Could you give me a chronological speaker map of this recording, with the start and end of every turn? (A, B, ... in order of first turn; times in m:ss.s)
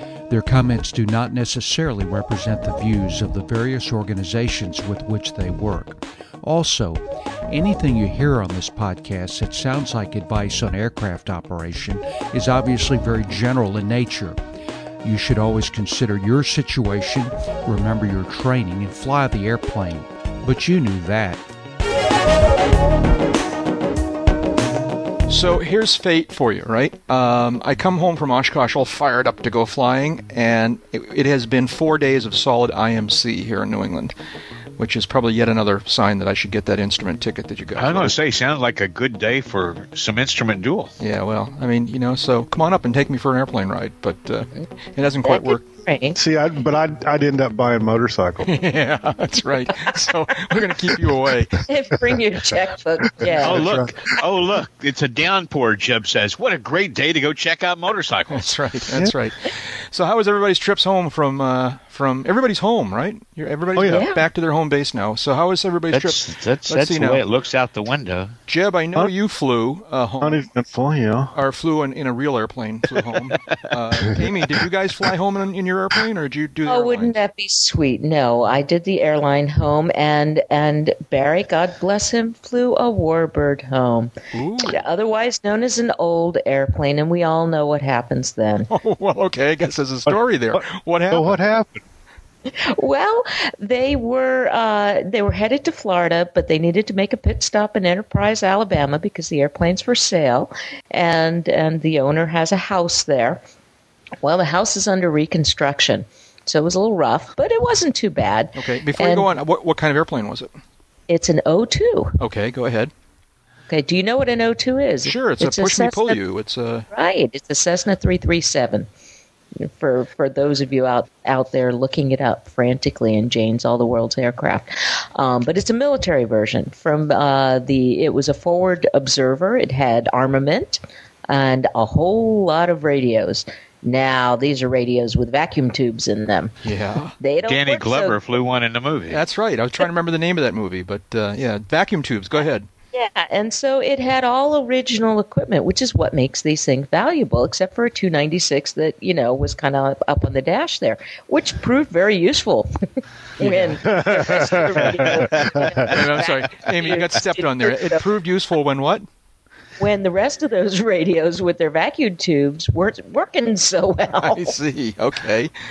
0:00.3-0:14.4 A
0:15.0-0:21.4 A
0:25.3-0:34.1 B
0:34.8-0:38.1 B
0:37.7-0:40.9 C
0:41.0-0:45.6 B
0:45.2-0:46.2 D
0:46.2-0:48.5 E
0:48.4-0:51.6 B
0:50.9-0:54.2 E
0:51.6-0:53.6 D
0:53.4-0:58.5 C
0:58.3-1:07.2 B
1:03.7-1:04.0 E
1:03.9-1:04.2 D
1:05.9-1:08.4 C
1:08.5-1:10.5 B
1:10.2-1:11.3 E
1:11.3-1:17.2 B
1:12.9-1:13.6 C
1:16.6-1:24.1 D
1:24.3-1:24.7 B
1:24.6-1:28.7 D
1:28.7-1:31.3 B
1:30.1-1:31.8 E
1:32.5-1:43.4 D
1:44.2-1:49.3 D
1:48.6-1:50.5 B
1:51.1-1:52.2 D
1:52.2-1:52.9 B
1:53.7-1:56.2 D
1:55.0-1:56.9 B
1:56.9-1:58.9 D
1:59.6-2:16.5 D
2:16.6-2:17.1 B
2:17.2-2:18.2 D
2:17.5-2:19.2 C
2:19.1-2:22.6 B
2:22.9-2:32.7 D
2:33.4-2:38.0 D
2:33.4-2:34.3 B
2:33.8-2:36.0 E
2:35.8-2:39.0 B
2:39.8-2:44.5 D
2:44.3-2:45.5 B